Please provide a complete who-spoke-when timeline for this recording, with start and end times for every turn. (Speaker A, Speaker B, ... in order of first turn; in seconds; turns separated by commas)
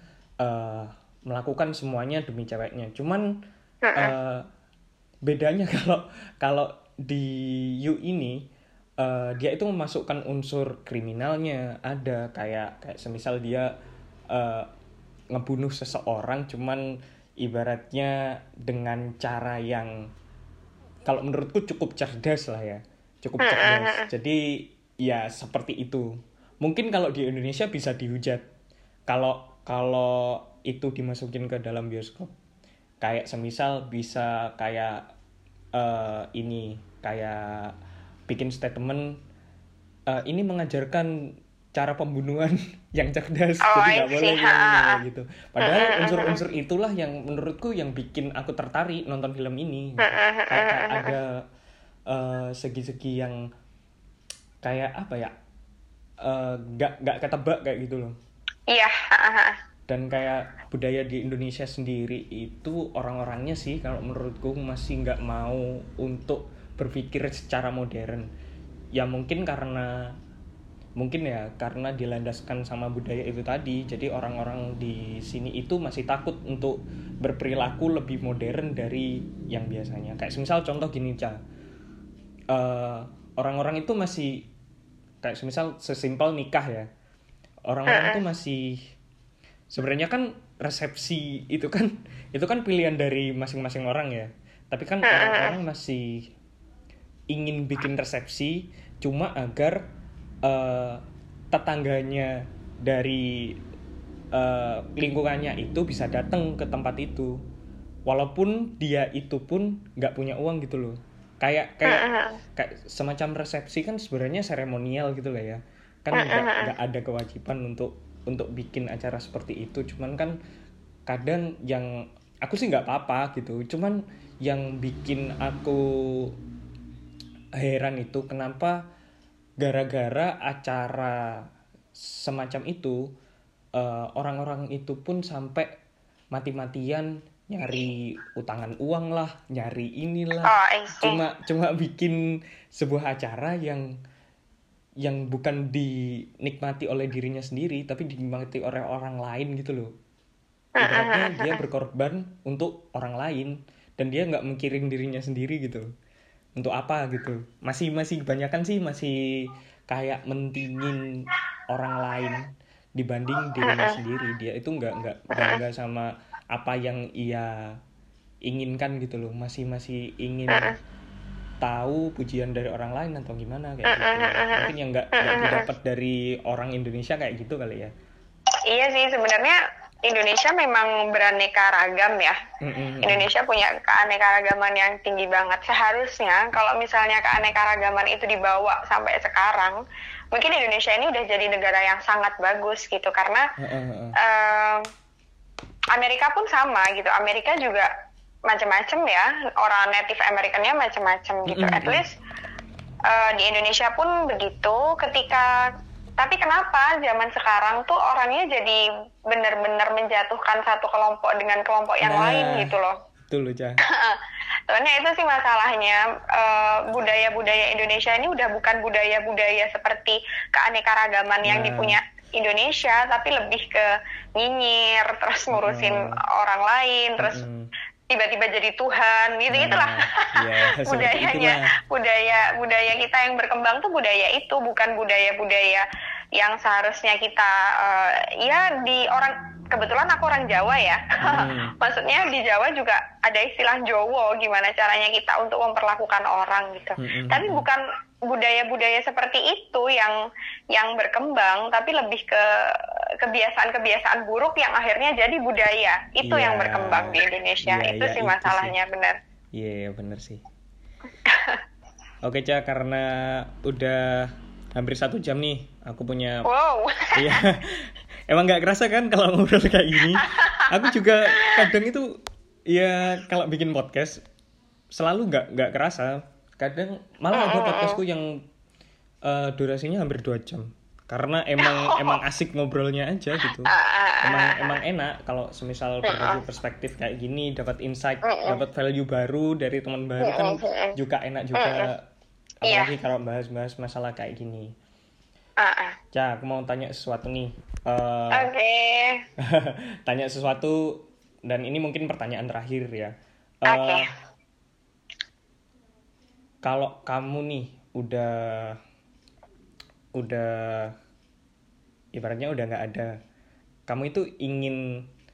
Speaker A: 0.4-3.3, Speaker B: 3.8-4.1, Speaker A: 3.9-4.5, Speaker A: 5.2-8.4, Speaker A: 9.0-13.7, Speaker A: 14.3-14.7, Speaker A: 15.3-16.8, Speaker A: 17.4-19.9, Speaker A: 21.0-28.4, Speaker B: 23.4-24.1, Speaker A: 29.1-32.3, Speaker A: 33.0-35.0, Speaker A: 35.8-37.7, Speaker A: 38.3-39.2, Speaker A: 40.1-51.4, Speaker B: 43.6-45.0, Speaker B: 45.6-46.4, Speaker B: 50.0-51.1, Speaker A: 52.1-53.4, Speaker A: 54.6-55.3, Speaker A: 56.2-58.1, Speaker B: 58.7-59.5, Speaker A: 59.9-68.2, Speaker A: 69.0-70.1, Speaker A: 71.0-81.4, Speaker A: 82.5-84.5, Speaker A: 85.2-86.9, Speaker A: 87.7-88.9, Speaker B: 87.9-88.2, Speaker A: 89.7-96.3, Speaker B: 95.0-95.5, Speaker A: 97.3-99.9, Speaker A: 100.4-103.5, Speaker A: 104.3-107.4, Speaker A: 108.0-120.3, Speaker B: 111.8-112.4, Speaker B: 116.1-116.7, Speaker A: 121.1-126.3, Speaker A: 127.6-128.8, Speaker A: 129.6-131.4, Speaker A: 132.0-133.1, Speaker A: 133.8-135.7, Speaker A: 136.3-142.2, Speaker B: 140.4-141.2, Speaker A: 142.7-143.8, Speaker A: 145.0-149.9, Speaker B: 150.8-151.6, Speaker A: 150.8-155.9, Speaker A: 156.6-159.2, Speaker A: 159.9-161.1, Speaker A: 161.7-167.7, Speaker B: 163.6-164.0, Speaker B: 165.3-165.6, Speaker A: 168.4-170.7, Speaker B: 170.5-170.8, Speaker A: 171.6-177.9, Speaker B: 173.8-175.7, Speaker B: 178.7-182.4, Speaker A: 182.6-183.3, Speaker B: 183.0-189.8, Speaker B: 190.3-193.4, Speaker A: 193.6-194.2, Speaker B: 194.2-194.8, Speaker B: 195.9-197.9, Speaker B: 198.5-202.2, Speaker A: 201.4-202.0, Speaker B: 203.1-205.6, Speaker B: 206.2-213.0, Speaker A: 212.0-213.8, Speaker B: 213.9-227.4, Speaker A: 221.4-222.0, Speaker A: 225.5-226.2, Speaker A: 227.2-227.7, Speaker B: 228.1-235.8, Speaker A: 229.5-231.7, Speaker B: 236.4-250.1, Speaker A: 241.2-241.7, Speaker A: 247.0-247.7, Speaker B: 250.7-259.2, Speaker A: 256.2-258.7, Speaker A: 259.6-260.4, Speaker B: 261.2-261.6, Speaker A: 262.2-266.5, Speaker B: 266.4-267.4, Speaker A: 267.1-272.2, Speaker B: 270.2-270.7, Speaker B: 271.3-271.7, Speaker A: 272.7-274.2, Speaker A: 274.9-278.4, Speaker B: 277.3-278.0, Speaker A: 279.2-292.0, Speaker B: 281.6-282.2, Speaker B: 283.7-284.8, Speaker B: 286.0-286.4, Speaker B: 288.2-288.6, Speaker B: 290.2-290.9, Speaker B: 291.5-291.9, Speaker A: 292.6-294.7, Speaker B: 292.6-292.9, Speaker B: 295.6-295.9, Speaker A: 296.1-298.5, Speaker B: 298.3-299.2, Speaker A: 299.4-304.1, Speaker B: 303.7-304.1, Speaker A: 306.6-308.8, Speaker A: 310.1-310.9, Speaker A: 312.1-313.1, Speaker A: 313.9-315.0